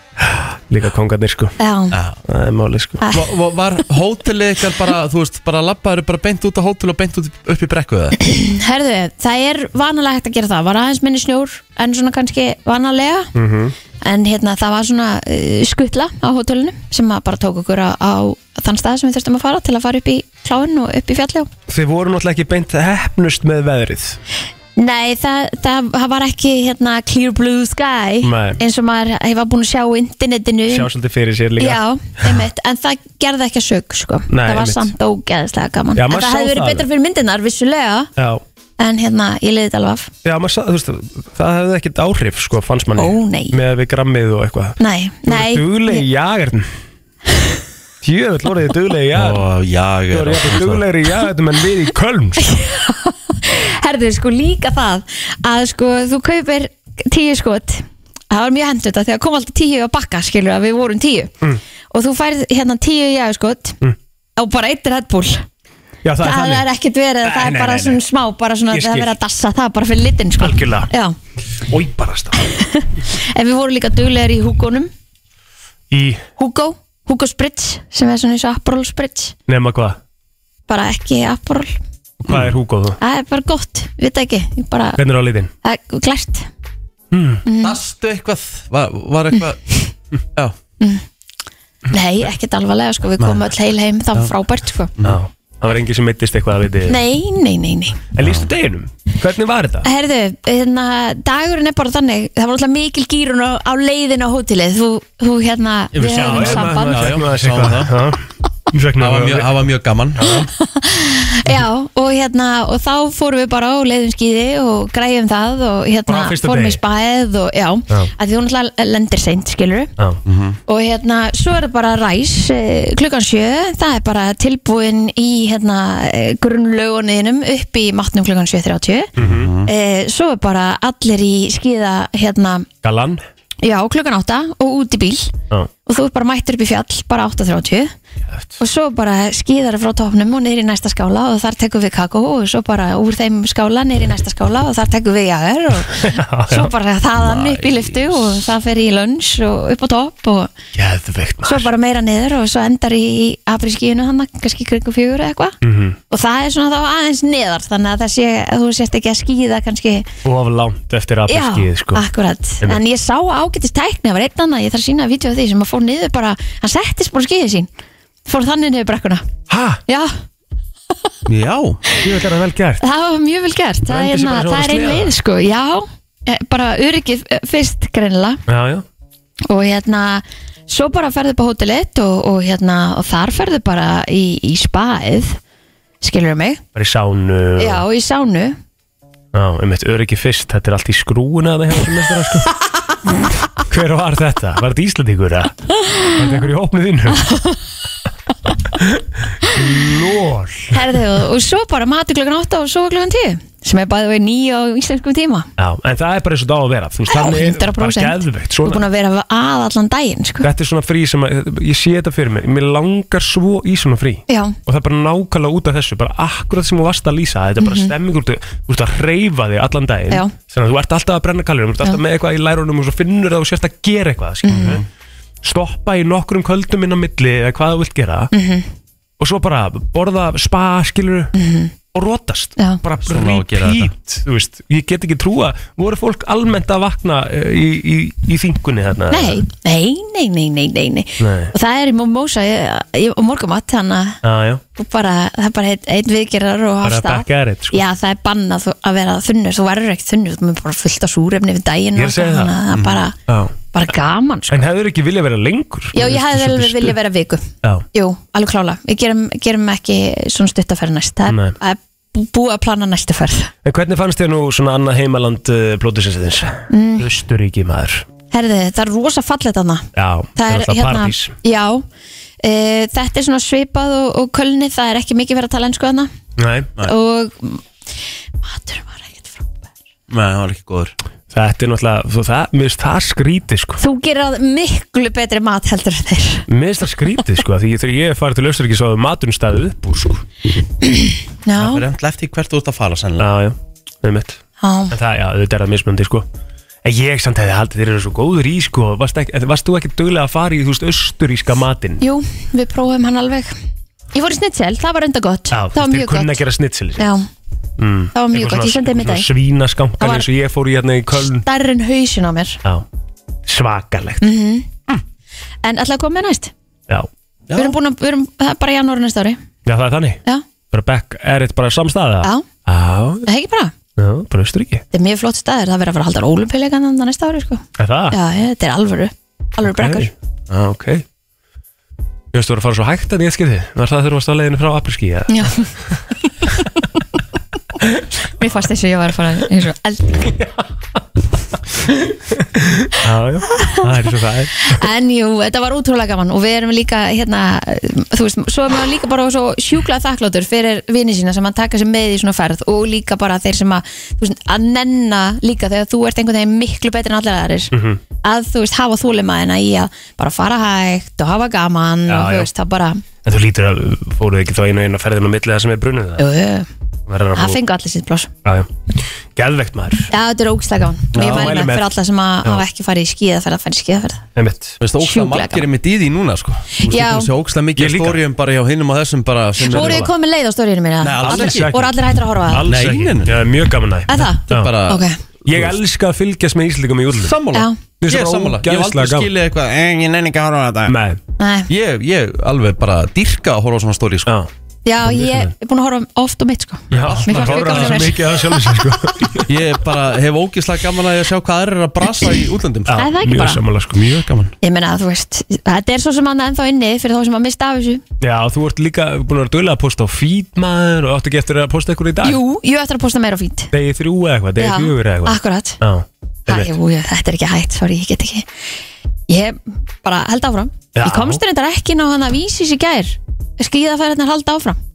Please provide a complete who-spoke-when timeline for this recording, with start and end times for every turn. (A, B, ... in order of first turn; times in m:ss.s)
0:00.2-0:01.5 A
0:01.6-0:02.0 B
0:01.9-0:02.2 C
0:02.3-0:03.0 A
0:03.0-0:03.3 B
0:03.1-0:08.2 C
0:08.2-0:13.3 B
0:13.3-0:13.7 A
0:14.0-0:21.5 B
0:21.7-0:24.2 A
0:24.8-0:30.9 B
0:28.2-0:28.6 A
0:30.7-0:32.4 A
0:31.6-0:38.1 B
0:34.3-0:34.9 A
0:35.9-0:36.8 A
0:38.2-0:38.4 A
0:38.8-0:40.1 B
0:40.2-0:46.7 A
0:43.0-0:43.6 B
0:44.8-0:46.0 B
0:48.0-0:49.4 A
0:49.1-0:50.8 C
0:50.1-0:52.4 A
0:52.4-1:01.3 B
1:01.9-1:03.8 B
1:04.4-1:05.5 B
1:06.0-1:06.6 A
1:06.2-1:11.1 B
1:07.2-1:08.0 A
1:08.7-1:09.1 A
1:10.4-1:10.9 A
1:11.6-1:12.4 A
1:12.3-1:14.9 B
1:15.9-1:16.2 A
1:16.4-1:19.3 B
1:19.5-1:20.0 A
1:20.7-1:21.7 B
1:22.2-1:23.0 A
1:22.3-1:22.6 C
1:23.0-1:25.0 B
1:25.0-1:25.5 A
1:25.6-1:26.5 B
1:27.1-1:27.4 A
1:27.4-1:27.8 B
1:27.6-1:29.6 C
1:29.4-1:29.9 B
1:30.8-1:31.0 B
1:31.9-1:34.9 B
1:33.2-1:33.4 C
1:35.0-1:37.0 A
1:36.9-1:38.0 B
1:38.1-1:39.9 A
1:38.2-1:38.5 C
1:39.8-1:47.1 B
1:45.9-1:48.0 C
1:46.0-1:49.5 A
1:49.0-1:50.5 C
1:50.6-1:59.9 B
1:56.1-1:56.8 A
2:00.2-2:00.6 C
2:00.7-2:09.1 B
2:09.2-2:09.5 A
2:09.2-2:09.7 C
2:09.6-2:12.7 B
2:12.8-2:13.2 A
2:13.6-2:15.3 B
2:15.8-2:17.9 B
2:18.6-2:30.5 B
2:25.9-2:28.3 A
2:30.7-2:31.7 A
2:31.4-2:35.6 B
2:35.6-2:36.0 A
2:36.1-2:40.1 B
2:40.2-2:42.0 A
2:41.3-2:47.7 B
2:48.2-2:49.2 B
2:49.5-2:49.8 A
2:49.9-2:50.2 B
2:51.3-2:51.8 C
2:52.0-2:52.8 A
2:52.8-2:58.4 B
2:53.9-2:55.1 A
2:58.5-2:58.8 A
2:59.5-3:05.4 B
3:06.0-3:06.6 B
3:06.7-3:07.8 A
3:07.6-3:08.6 B
3:09.3-3:12.5 A
3:13.5-3:17.3 A
3:15.9-3:16.2 B
3:17.2-3:17.6 B
3:18.8-3:21.0 A
3:20.7-3:25.5 B
3:25.6-3:28.8 A
3:27.1-3:30.5 B
3:30.4-3:44.8 A
3:34.3-3:34.6 B
3:37.6-3:37.9 B
3:44.4-3:44.8 B
3:44.5-3:44.8 C
3:45.4-3:48.3 A
3:48.3-3:48.7 B
3:49.2-3:51.3 A
3:51.3-3:51.7 B
3:51.9-3:59.4 A
3:53.0-3:53.9 C
3:59.1-4:04.2 B
4:01.2-4:01.5 A
4:04.2-4:04.6 A
4:04.8-4:13.2 B
4:06.8-4:07.8 A
4:12.0-4:12.5 A
4:12.7-4:13.0 C
4:13.3-4:13.5 A
4:13.7-4:14.6 B
4:14.5-4:16.9 A
4:15.9-4:23.5 B
4:21.3-4:21.6 A
4:23.6-4:28.0 A
4:26.7-4:27.1 B
4:28.3-4:31.8 B
4:30.0-4:31.3 A
4:32.4-4:36.1 B
4:36.4-4:36.7 A
4:36.8-4:37.6 B
4:38.4-4:39.7 B
4:40.1-4:40.9 C
4:41.3-4:43.8 A
4:43.8-4:46.4 B
4:46.5-4:50.2 A
4:50.8-4:51.8 B
4:51.6-4:53.3 C
4:53.2-4:54.4 A
4:54.6-4:54.9 B
4:54.9-4:56.2 A
4:56.8-5:02.0 A
5:02.0-5:03.5 B
5:04.1-5:06.4 B
5:05.5-5:07.1 A
5:07.0-5:07.3 B
5:07.8-5:11.4 A
5:08.1-5:09.3 B
5:10.0-5:10.2 B
5:11.3-5:12.6 B
5:13.5-5:14.2 A
5:14.2-5:14.7 B
5:15.6-5:16.5 B
5:17.5-5:17.8 C
5:17.5-5:19.4 B
5:19.6-5:20.2 A
5:20.7-5:23.2 A
5:23.2-5:23.7 B
5:24.0-5:24.8 A
5:24.9-5:30.1 B
5:27.8-5:28.2 A
5:29.6-5:31.0 A
5:32.3-5:35.7 A
5:35.3-5:35.7 B
5:38.2-5:40.4 B
5:41.9-5:44.8 A
5:43.5-5:43.8 B
5:44.6-5:57.7 B
5:57.7-5:58.0 A
5:58.2-6:03.0 B
6:02.1-6:02.5 A
6:03.2-6:06.2 A
6:06.2-6:06.7 B
6:07.1-6:07.6 A
6:07.3-6:08.3 B
6:08.4-6:10.1 A
6:10.1-6:14.2 B
6:11.1-6:11.6 C
6:11.2-6:11.9 A
6:14.4-6:14.8 A
6:14.8-6:20.1 C
6:15.0-6:15.6 B
6:16.8-6:17.3 B
6:17.8-6:18.2 A
6:19.6-6:22.7 B
6:19.7-6:20.1 A
6:21.0-6:21.7 C
6:21.2-6:22.0 A
6:22.5-6:24.7 A
6:22.6-6:23.4 C
6:24.1-6:25.2 B
6:24.5-6:25.8 C
6:25.5-6:27.4 A
6:27.1-6:31.0 C
6:28.0-6:29.3 A
6:30.9-6:31.2 A
6:31.4-6:31.7 B
6:31.7-6:34.3 C
6:34.8-6:38.8 B
6:35.0-6:35.5 A
6:36.9-6:38.1 C
6:36.9-6:39.5 A
6:39.5-6:43.1 C
6:42.9-6:44.3 A
6:42.9-6:43.6 B
6:43.9-6:44.5 C
6:44.6-6:48.0 B
6:48.2-6:52.4 A
6:52.2-6:53.7 B
6:53.7-6:56.7 A
6:54.6-6:55.8 B
6:56.5-6:58.5 B
6:59.3-7:04.8 B
7:00.9-7:01.4 A